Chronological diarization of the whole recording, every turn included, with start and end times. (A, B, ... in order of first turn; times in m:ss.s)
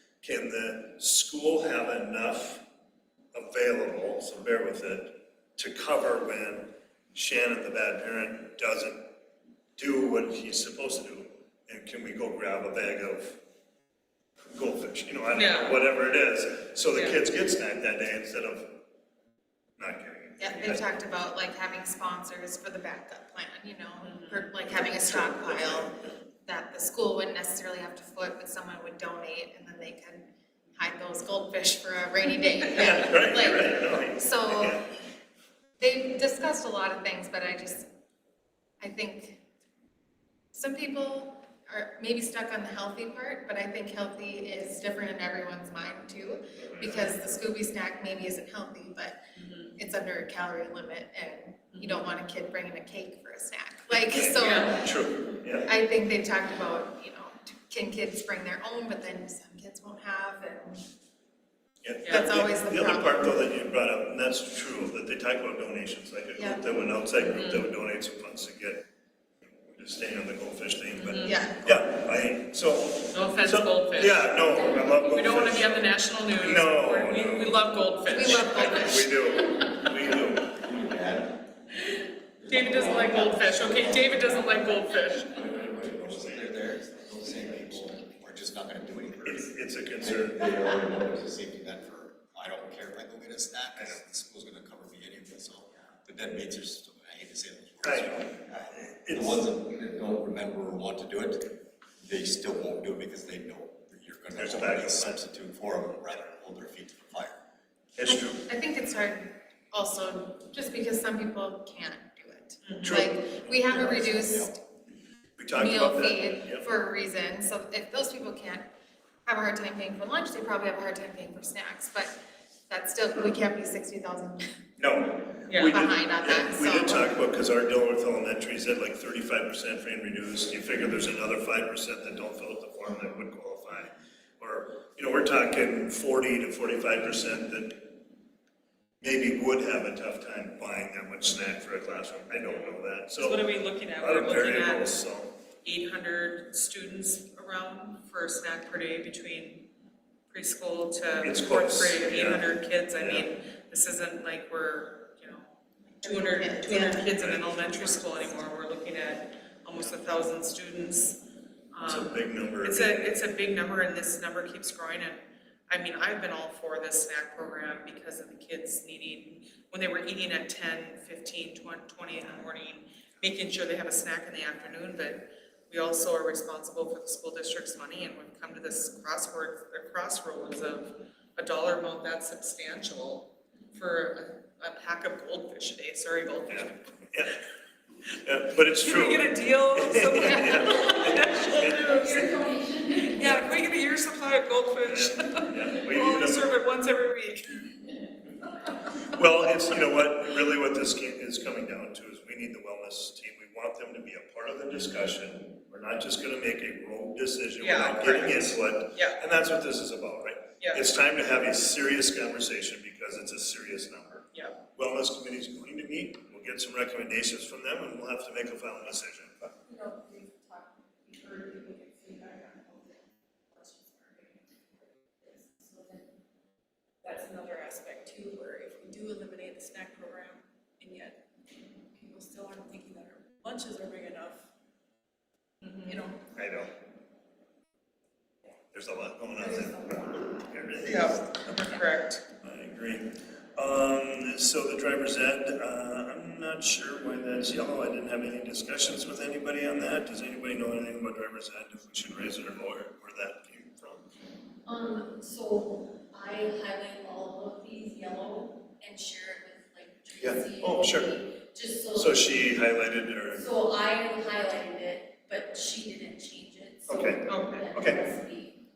0:00.2-0:02.6 A
0:03.3-0:09.0 A
0:09.8-0:13.4 A
0:14.5-0:18.7 A
0:15.3-0:15.8 B
0:19.8-0:20.8 A
0:20.4-0:34.8 C
0:24.0-0:24.5 B
0:24.7-0:25.9 A
0:32.7-0:34.8 A
0:35.8-0:37.9 C
0:38.8-0:39.4 C
0:40.5-0:49.2 C
0:46.6-0:47.0 A
0:49.4-0:49.7 B
0:49.7-0:54.9 C
0:51.7-0:52.0 B
0:53.9-0:55.7 A
0:54.2-0:54.8 B
0:55.6-1:00.8 C
1:01.8-1:08.8 A
1:02.0-1:02.3 B
1:02.1-1:03.3 C
1:06.3-1:06.6 C
1:07.3-1:07.7 B
1:09.7-1:17.6 A
1:11.0-1:11.5 B
1:11.2-1:11.6 C
1:13.1-1:14.4 B
1:15.0-1:19.8 B
1:18.1-1:19.1 C
1:18.2-1:20.6 A
1:20.5-1:21.4 D
1:21.9-1:25.3 B
1:22.4-1:29.5 D
1:29.2-1:30.5 A
1:30.0-1:41.5 D
1:37.8-1:38.2 A
1:38.7-1:39.4 A
1:42.0-1:47.4 D
1:44.4-1:45.2 A
1:48.0-1:48.4 A
1:48.1-1:54.6 C
1:52.8-1:53.6 A
1:53.7-1:54.5 D
1:55.4-1:56.7 A
1:55.5-1:58.7 C
1:59.2-2:02.1 C
2:02.7-2:04.6 C
2:04.8-2:17.9 A
2:05.5-2:05.8 B
2:05.6-2:07.1 C
2:19.0-2:25.3 A
2:23.2-2:25.0 B
2:25.6-2:29.7 B
2:30.3-2:35.5 B
2:31.2-2:33.3 A
2:36.0-2:37.1 C
2:36.0-3:06.8 B
2:37.1-2:37.9 A
2:37.9-2:38.3 C
2:41.8-2:43.2 A
3:06.5-3:07.4 A
3:08.2-3:12.4 A
3:08.8-3:12.1 B
3:12.0-3:13.0 E
3:12.9-3:17.7 B
3:14.8-3:16.5 A
3:19.0-3:39.5 A
3:27.6-3:29.2 B
3:30.6-3:30.8 B
3:34.3-3:34.6 B
3:39.7-3:44.4 F
3:45.2-3:46.0 F
3:47.0-3:51.2 F
3:51.9-3:54.4 F
3:55.6-3:56.0 B
3:55.8-3:56.2 F
3:56.3-3:56.7 A
3:58.7-4:01.6 A
3:59.4-4:00.3 F
4:00.8-4:02.2 B
4:02.4-4:14.1 A
4:14.7-4:22.5 E
4:20.2-4:21.1 A
4:21.9-4:23.5 A
4:23.3-4:28.6 E
4:26.9-4:28.1 A
4:27.2-4:27.7 B